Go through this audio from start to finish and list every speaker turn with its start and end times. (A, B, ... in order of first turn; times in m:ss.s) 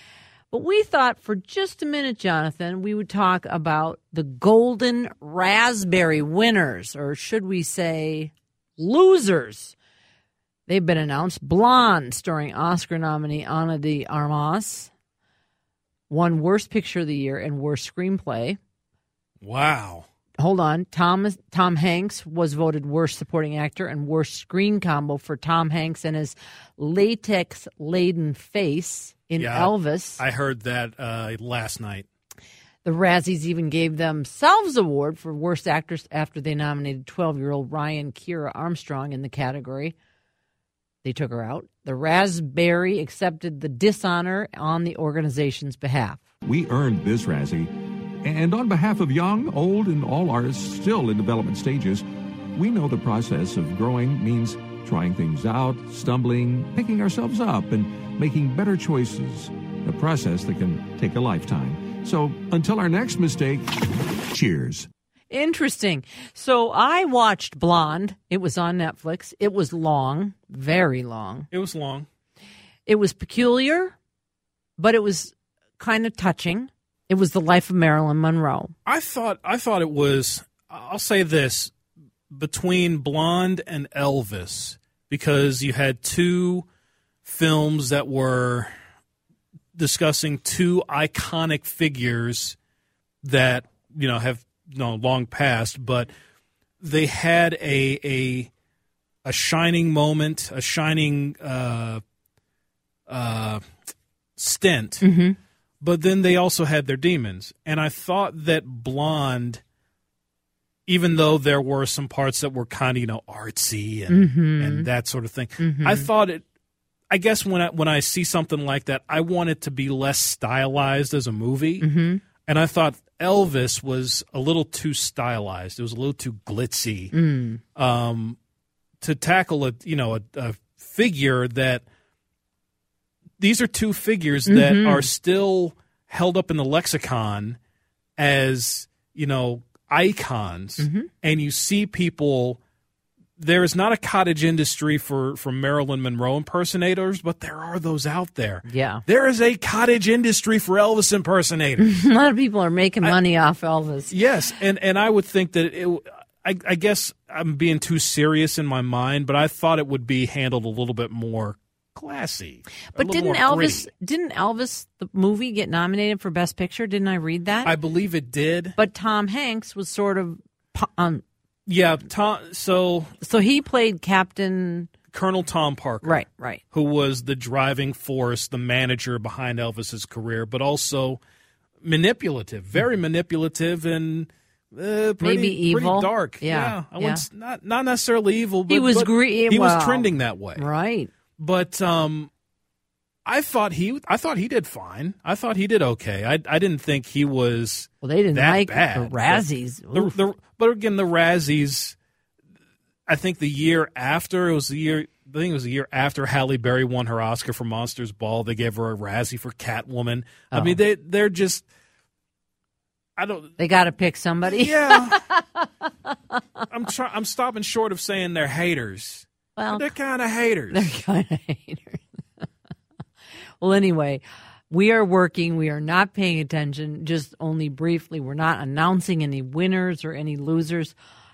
0:00.5-0:09.7 A
0:10.7-0:14.9 A
0:16.1-0:18.6 A
0:19.4-0:20.0 B
0:20.4-0:30.2 A
0:29.4-0:32.0 B
0:32.8-0:39.9 A
0:41.0-0:46.2 A
0:46.4-0:47.7 C
0:48.2-0:52.0 C
0:52.5-1:03.6 C
1:04.3-1:04.9 C
1:05.3-1:11.5 A
1:11.5-1:12.0 B
1:12.9-1:13.9 A
1:14.8-1:18.7 A
1:18.8-1:21.7 B
1:22.3-1:26.6 B
1:27.2-1:28.7 B
1:29.7-1:32.6 B
1:33.2-1:36.1 B
1:36.8-1:38.5 B
1:39.2-1:42.0 B
1:43.1-1:43.6 B
1:44.4-1:45.0 B
1:45.0-1:45.4 A
1:45.8-1:49.6 B
1:50.9-1:56.4 B
1:54.1-1:54.9 A
1:55.6-1:56.1 A
1:57.1-2:01.8 B
2:01.8-2:02.2 A
2:02.4-2:07.1 B
2:07.1-2:07.6 A
2:07.8-2:08.4 B
2:09.0-2:11.8 B
2:13.4-2:17.6 B
2:14.5-2:15.1 A
2:18.2-2:22.6 B
2:20.8-2:21.1 A
2:23.4-2:31.8 B
2:28.6-2:29.0 A
2:31.8-2:34.1 A
2:34.1-2:43.9 B
2:43.0-2:47.7 A
2:47.6-2:48.7 B
2:48.8-2:51.2 A
2:51.7-2:53.1 B
2:53.2-2:54.9 A
2:55.1-3:01.2 B
2:56.0-2:56.6 A
3:01.8-3:10.7 B
3:05.2-3:07.2 A
3:08.7-3:11.1 A
3:11.4-3:12.3 B
3:13.2-3:22.0 B
3:18.0-3:20.1 A
3:23.1-3:31.6 B
3:30.5-3:30.8 A
3:33.2-3:33.5 B
3:33.6-3:36.1 A
3:34.4-3:35.2 B
3:36.7-3:40.9 B
3:39.6-3:39.9 A
3:40.7-3:42.4 A
3:43.6-3:50.9 A